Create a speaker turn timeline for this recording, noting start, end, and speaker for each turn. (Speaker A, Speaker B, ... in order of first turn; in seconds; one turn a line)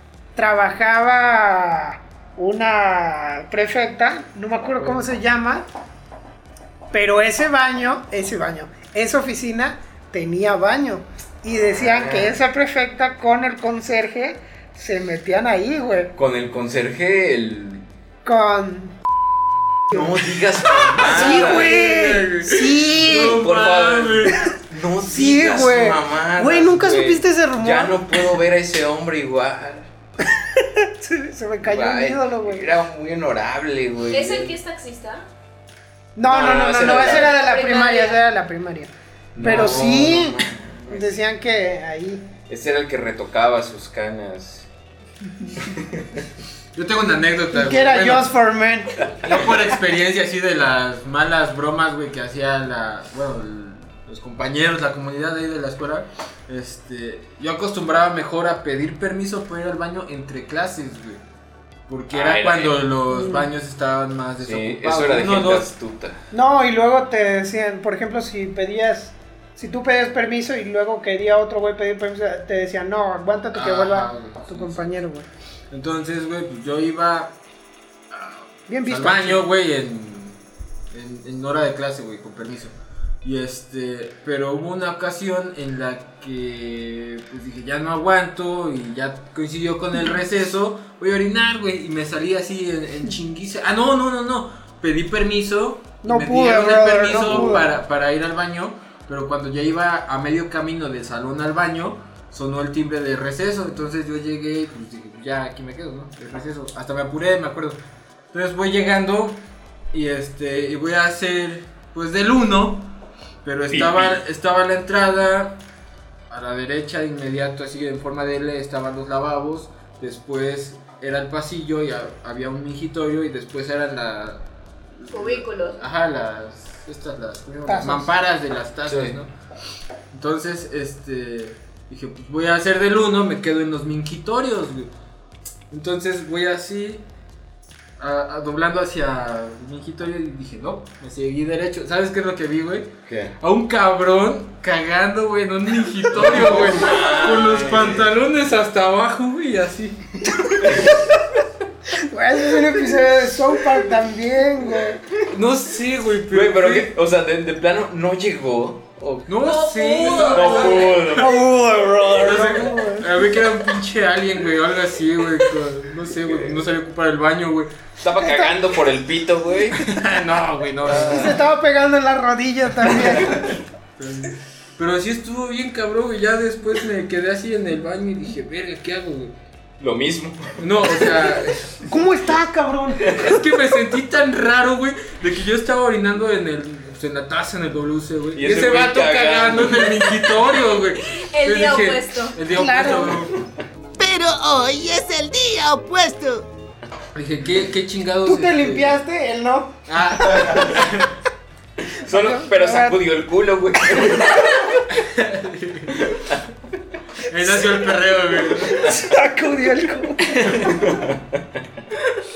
Speaker A: 0.4-5.7
Speaker A: 6.9-16.1
Speaker B: 11.7-12.4
Speaker B: 16.2-17.9
Speaker A: 18.2-18.9
Speaker A: 19.9-20.2
Speaker B: 19.9-21.8
Speaker A: 20.9-23.4
Speaker C: 21.0-24.5
Speaker B: 23.1-29.9
Speaker A: 25.0-28.0
Speaker A: 30.3-32.7
Speaker B: 31.6-34.6
Speaker D: 34.1-35.3
Speaker A: 36.2-42.3
Speaker B: 36.3-37.4
Speaker D: 36.8-38.2
Speaker B: 39.4-41.1
Speaker C: 39.4-39.8
Speaker B: 42.5-44.7
Speaker B: 45.6-46.2
Speaker C: 46.8-48.3
Speaker A: 47.5-48.9
Speaker B: 49.0-49.5
Speaker C: 49.2-61.2
Speaker C: 61.9-65.7
Speaker B: 62.1-62.8
Speaker A: 63.1-63.5
Speaker B: 64.4-66.2
Speaker A: 66.3-75.3
Speaker C: 73.5-75.0
Speaker C: 75.7-77.3
Speaker C: 78.1-80.3
Speaker A: 78.7-79.4
Speaker C: 80.9-107.8
Speaker A: 96.0-97.7
Speaker C: 108.3-109.4
Speaker C: 109.9-112.9
Speaker C: 113.4-115.6
Speaker B: 113.7-114.2
Speaker C: 116.3-124.4
Speaker C: 125.0-129.3
Speaker D: 125.1-125.8
Speaker A: 127.7-128.1
Speaker B: 128.9-129.2
Speaker C: 130.1-134.9
Speaker C: 135.7-137.0
Speaker C: 138.0-150.4
Speaker B: 143.1-143.3
Speaker B: 146.1-148.1
Speaker B: 150.7-150.9
Speaker A: 152.0-155.0
Speaker C: 155.3-156.9
Speaker B: 156.3-159.3
Speaker C: 159.3-161.1
Speaker D: 159.4-161.1
Speaker B: 160.2-162.5
Speaker A: 161.1-163.1
Speaker C: 162.2-167.7
Speaker B: 166.2-166.7
Speaker B: 168.0-169.8
Speaker A: 168.2-168.6
Speaker C: 169.8-171.4
Speaker B: 170.9-171.4
Speaker A: 170.9-173.4
Speaker B: 173.1-173.5
Speaker C: 174.0-179.3
Speaker B: 179.8-181.3
Speaker C: 180.6-181.9
Speaker A: 181.9-183.1
Speaker C: 183.1-193.4
Speaker B: 183.1-183.3
Speaker B: 188.3-190.3
Speaker D: 191.3-192.4
Speaker A: 192.5-193.2
Speaker E: 194.0-196.4
Speaker C: 197.1-199.0
Speaker A: 198.2-200.7
Speaker C: 199.9-201.1
Speaker B: 201.9-204.7
Speaker A: 202.1-203.0
Speaker C: 204.9-206.0
Speaker B: 206.0-206.4
Speaker C: 207.3-208.9
Speaker A: 208.5-210.6
Speaker B: 210.5-211.4